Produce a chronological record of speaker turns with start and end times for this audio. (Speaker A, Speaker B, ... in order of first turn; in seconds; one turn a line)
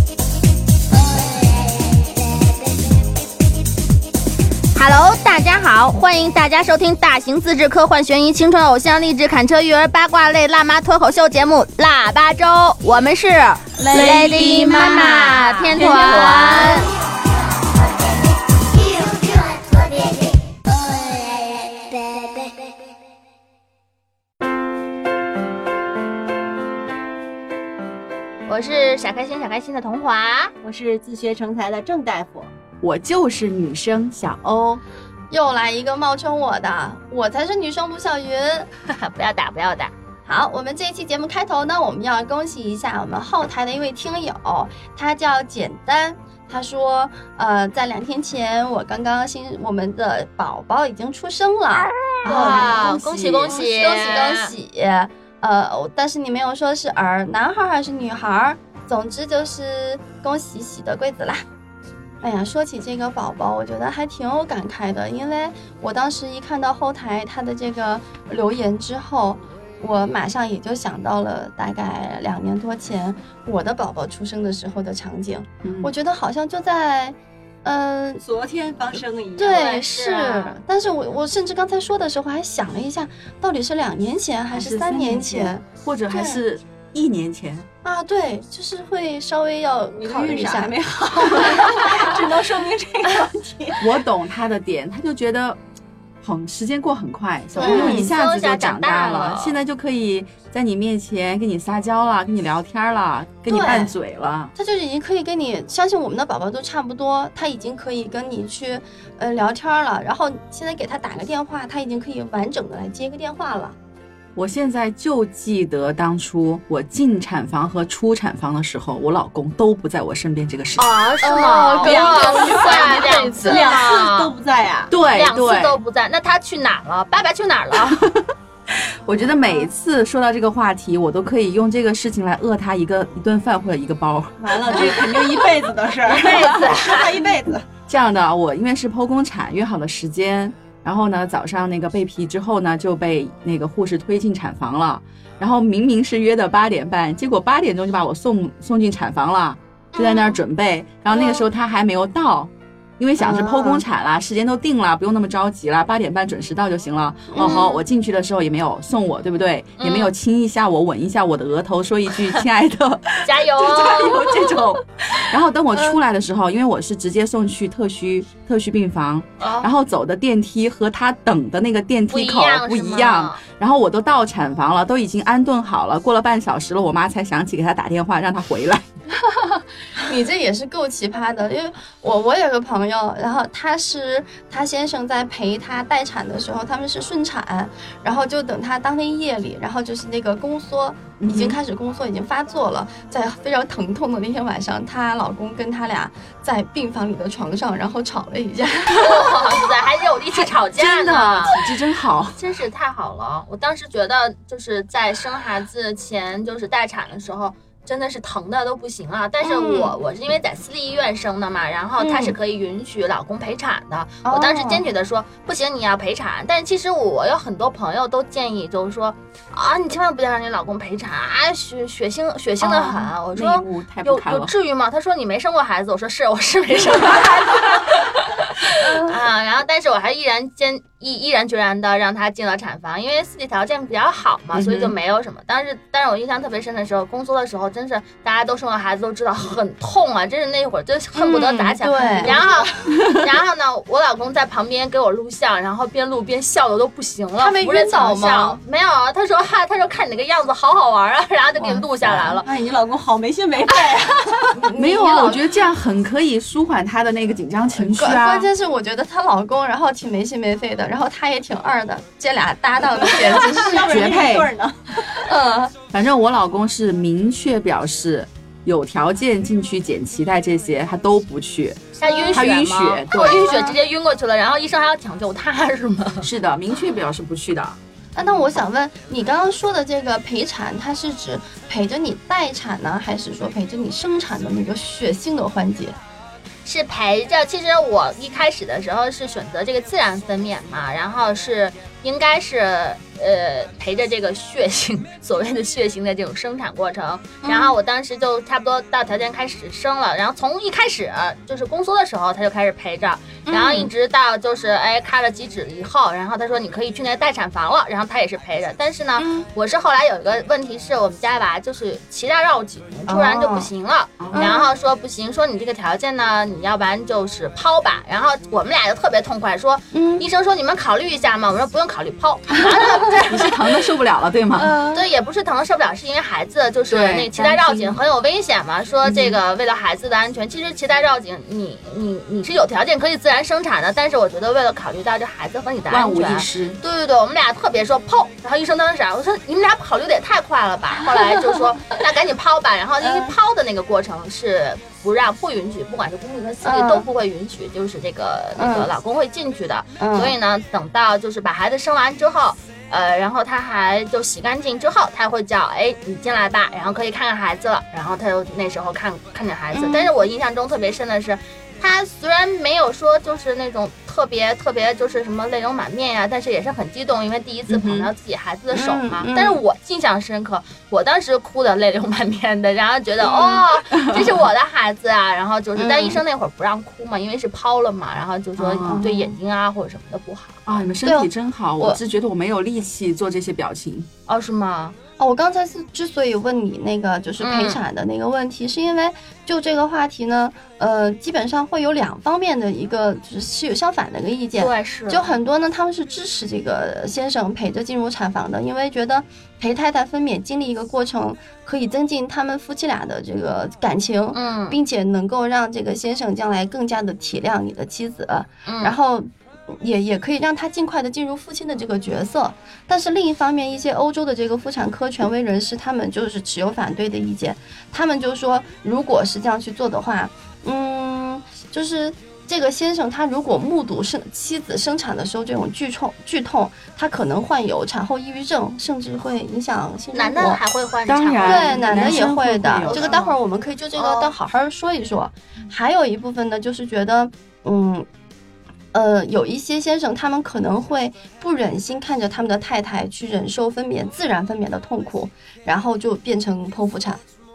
Speaker A: 0.9-3.0
Speaker B: 4.8-16.9
Speaker C: 13.8-15.0
Speaker A: 13.9-22.8
Speaker C: 15.7-16.5
Speaker B: 28.5-30.5
Speaker C: 30.6-32.5
Speaker D: 32.8-34.8
Speaker E: 35.3-38.7
Speaker B: 38.9-39.9
Speaker E: 40.3-52.9
Speaker B: 52.2-54.5
Speaker D: 52.3-53.5
Speaker E: 53.4-61.5
Speaker E: 62.2-78.2
Speaker D: 75.6-75.9
Speaker C: 78.2-79.8
Speaker E: 79.4-86.4
Speaker B: 79.4-80.6
Speaker D: 84.5-87.7
Speaker E: 87.8-92.2
Speaker C: 89.9-93.8
Speaker D: 93.8-95.6
Speaker D: 96.2-104.5
Speaker E: 97.6-98.1
Speaker B: 97.6-99.6
Speaker E: 103.5-103.9
Speaker E: 104.6-113.8
Speaker D: 114.4-120.9
Speaker B: 120.8-124.3
Speaker E: 121.2-123.8
Speaker D: 121.8-123.4
Speaker C: 122.2-122.9
Speaker C: 123.4-124.9
Speaker D: 124.9-125.8
Speaker B: 125.1-128.0
Speaker D: 127.8-135.4
Speaker C: 134.4-137.7
Speaker B: 136.1-137.1
Speaker D: 136.3-136.6
Speaker D: 137.9-178.9
Speaker E: 150.0-150.4
Speaker E: 151.1-151.5
Speaker E: 153.2-153.8
Speaker E: 157.3-157.8
Speaker B: 157.4-157.7
Speaker B: 159.8-160.1
Speaker B: 163.2-164.6
Speaker B: 169.4-169.7
Speaker B: 172.1-173.4
Speaker E: 179.2-199.6
Speaker D: 191.2-191.6
Speaker B: 199.0-201.6
Speaker D: 200.3-202.4
Speaker B: 202.4-252.5
Speaker E: 209.4-210.0
Speaker E: 212.0-212.4
Speaker E: 214.2-214.8
Speaker D: 222.6-224.5
Speaker D: 226.9-227.3
Speaker E: 228.8-229.2
Speaker D: 234.5-234.9
Speaker E: 241.2-242.4
Speaker E: 247.4-248.6
Speaker D: 252.0-252.4
Speaker C: 252.4-254.5
Speaker E: 254.5-255.5
Speaker D: 254.8-258.5
Speaker E: 257.8-264.1
Speaker C: 263.2-265.3
Speaker D: 263.7-264.5
Speaker E: 265.1-265.7
Speaker D: 265.9-273.5
Speaker B: 272.0-276.3
Speaker E: 272.0-272.4
Speaker E: 273.1-273.8
Speaker D: 276.2-277.8
Speaker E: 278.2-286.0
Speaker B: 286.6-323.5
Speaker E: 297.4-297.8
Speaker E: 303.5-303.9
Speaker E: 309.2-309.5
Speaker E: 313.1-313.7
Speaker D: 314.2-314.5
Speaker E: 314.3-314.7
Speaker E: 319.9-320.3
Speaker D: 323.2-324.7
Speaker E: 324.6-325.1
Speaker B: 324.9-380.6
Speaker D: 326.9-328.0
Speaker D: 329.0-329.4
Speaker D: 335.9-336.8
Speaker E: 343.0-343.3
Speaker E: 346.6-347.1
Speaker E: 348.6-348.9
Speaker E: 350.0-350.4
Speaker E: 359.7-360.1
Speaker D: 367.7-368.1
Speaker E: 368.7-369.6
Speaker E: 373.3-373.6
Speaker D: 373.9-374.4
Speaker E: 375.8-376.2
Speaker D: 378.6-379.1
Speaker E: 378.8-379.4
Speaker D: 380.7-384.1
Speaker E: 381.0-382.0
Speaker B: 384.3-385.0
Speaker E: 385.2-430.6
Speaker B: 387.4-387.8
Speaker B: 394.6-395.3
Speaker B: 404.3-404.8
Speaker B: 408.7-408.9
Speaker B: 430.1-432.1
Speaker D: 431.1-433.1
Speaker E: 431.4-438.1
Speaker C: 432.9-433.2
Speaker B: 432.9-433.3
Speaker B: 434.0-434.3
Speaker E: 438.9-447.2